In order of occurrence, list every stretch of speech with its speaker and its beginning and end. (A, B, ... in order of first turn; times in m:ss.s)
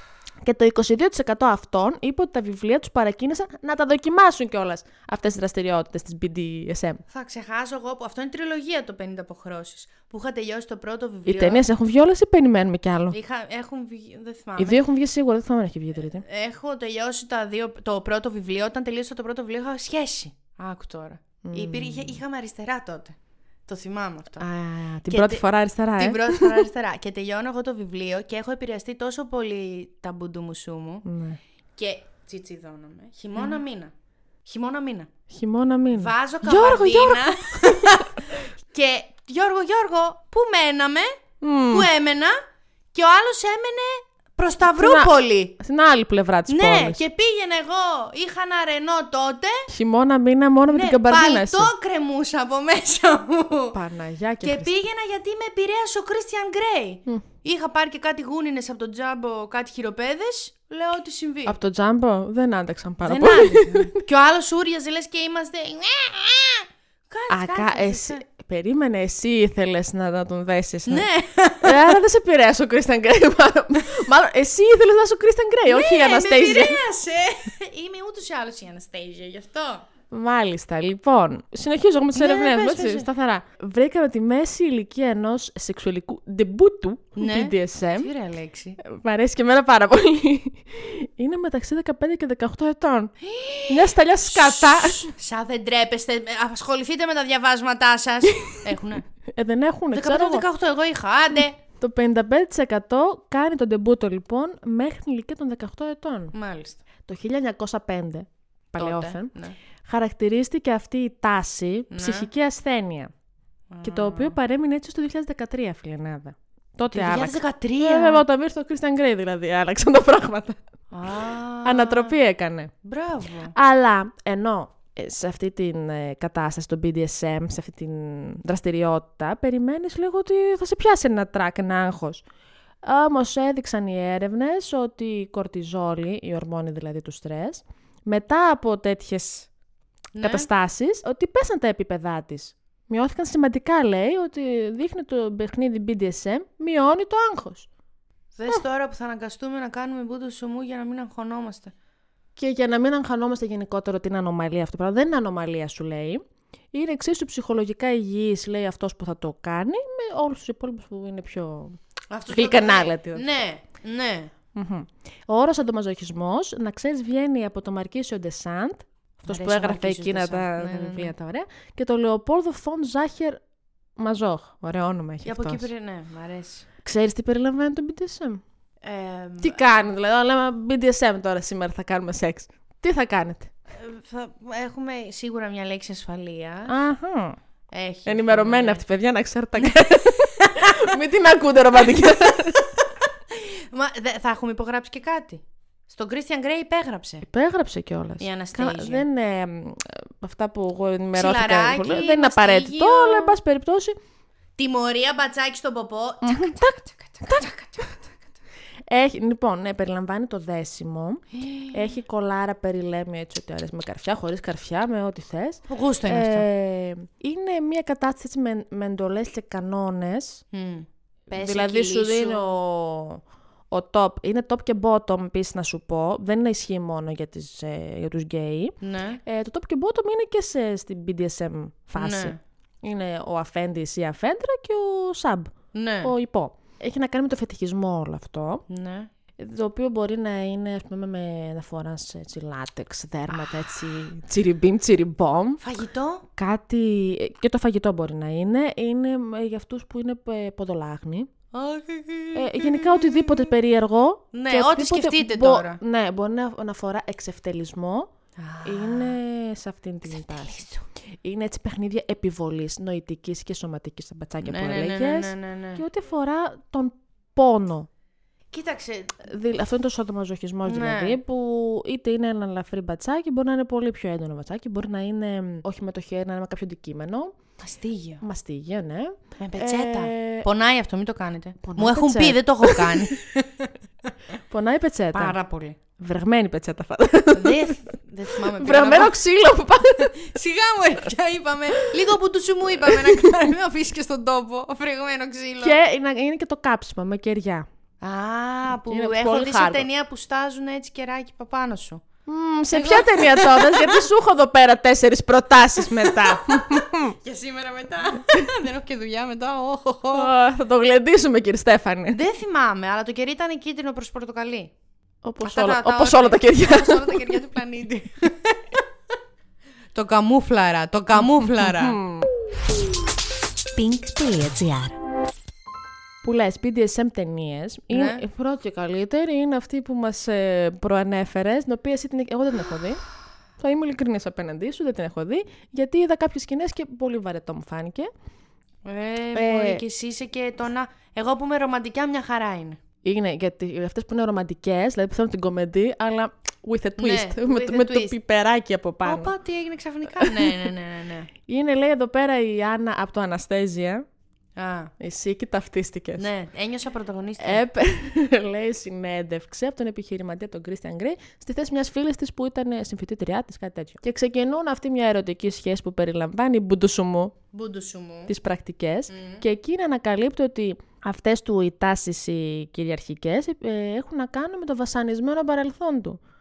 0:00.4-0:07.0 A
0:07.1-0:11.6 B
0:11.3-0:13.2 A
0:13.1-0:14.8 B
0:14.6-0:16.2 A
0:16.0-0:24.4 B
0:21.4-0:22.2 A
0:24.4-0:26.7 A
0:25.1-0:31.1 B
0:31.0-0:31.4 A
0:31.8-0:33.9 B
0:34.4-0:35.1 B
0:35.3-0:38.0 A
0:35.9-0:41.1 B
0:41.4-0:41.9 A
0:41.7-0:42.4 B
0:42.9-0:45.6 B
0:44.8-0:47.0 A
0:46.5-0:49.7 B
0:49.7-0:51.7 A
0:50.7-0:53.8 B
0:53.7-0:54.7 A
0:54.4-1:01.6 B
1:01.5-1:03.9 A
1:03.0-1:08.2 B
1:07.3-1:11.1 A
1:10.9-1:12.0 B
1:11.6-1:16.8 A
1:15.7-1:19.9 B
1:20.1-1:28.1 A
1:22.1-1:23.1 B
1:27.2-1:28.8 B
1:28.8-1:33.1 A
1:33.2-1:39.1 B
1:33.7-1:35.1 A
1:39.3-1:40.5 A
1:39.9-1:41.6 B
1:41.8-1:46.4 A
1:46.3-1:46.8 B
1:47.1-1:49.3 A
1:48.8-1:49.6 B
1:49.8-1:53.1 A
1:51.9-1:52.3 B
1:53.7-1:54.4 B
1:53.8-2:00.6 A
1:56.9-1:58.2 B
2:00.9-2:02.2 B
2:01.6-2:02.7 A
2:02.8-2:03.5 B
2:03.6-2:12.2 A
2:12.8-2:19.5 A
2:20.2-2:20.5 B
2:20.2-2:27.7 A
2:28.4-2:31.7 B
2:32.4-2:36.2 A
2:36.7-2:41.8 A
2:42.1-2:44.3 B
2:42.3-2:43.3 A
2:44.6-2:53.4 A
2:49.3-2:51.1 B
2:54.0-2:55.7 A
2:55.2-2:56.7 B
2:56.8-2:58.4 A
2:58.8-2:59.6 B
2:59.4-3:03.5 A
3:03.7-3:06.7 B
3:06.7-3:07.4 A
3:07.7-3:08.8 B
3:08.1-3:12.7 A
3:09.6-3:10.7 B
3:11.8-3:12.7 B
3:13.3-3:17.2 B
3:17.2-3:24.0 A
3:18.2-3:19.1 B
3:21.2-3:23.4 B
3:24.6-3:28.1 B
3:26.2-3:26.8 A
3:28.9-3:31.2 A
3:31.3-3:31.9 B
3:31.7-3:40.4 A
3:35.7-3:36.5 B
3:40.5-3:42.6 B
3:41.4-3:48.8 A
3:48.8-3:49.2 B
3:49.3-3:55.5 A
3:52.0-3:52.4 B
3:55.7-3:56.1 B
3:56.0-3:58.6 A
3:58.7-3:59.1 B
3:59.4-4:05.6 A
4:05.6-4:06.3 B
4:06.4-4:11.3 A
4:11.5-4:13.5 B
4:12.4-4:18.1 A
4:14.3-4:15.8 B
4:18.4-4:19.2 B
4:18.6-4:20.7 A
4:20.1-4:20.8 B
4:21.2-4:27.9 A
4:24.4-4:25.8 B
4:28.5-4:29.2 B
4:29.2-4:37.3 A
4:30.6-4:31.2 B
4:37.6-4:38.2 B
4:38.2-4:40.4 A
4:39.4-4:43.7 B
4:41.6-4:43.1 A
4:44.5-4:45.4 A
4:45.1-4:45.8 B
4:46.0-4:47.7 A
4:47.3-4:49.2 B
4:48.5-4:50.3 A
4:50.2-4:55.8 B
4:52.9-4:53.3 A
4:55.6-4:57.7 A
4:58.0-5:02.0 B
4:58.9-4:59.9 A
5:02.3-5:07.1 A
5:02.7-5:04.1 B
5:06.0-5:06.4 B
5:07.1-5:10.3 B
5:10.1-5:12.2 A
5:12.1-5:14.7 B
5:15.2-5:17.4 A
5:15.4-5:18.8 B
5:19.9-5:22.0 B
5:21.6-5:22.3 A
5:23.8-5:25.0 B
5:26.2-5:33.0 A
5:27.9-5:28.2 B
5:33.6-5:38.1 A
5:38.8-5:42.8 B
5:39.3-5:39.8 A
5:43.0-5:49.3 A
5:47.0-5:48.1 B
5:49.0-5:51.3 B
5:50.2-5:50.7 A
5:51.5-5:54.0 A
5:54.6-5:54.9 B
5:55.0-5:56.3 A
5:56.2-5:57.6 B
5:57.4-6:07.3 A
6:07.5-6:08.3 B
6:08.3-6:16.2 A
6:09.1-6:09.4 B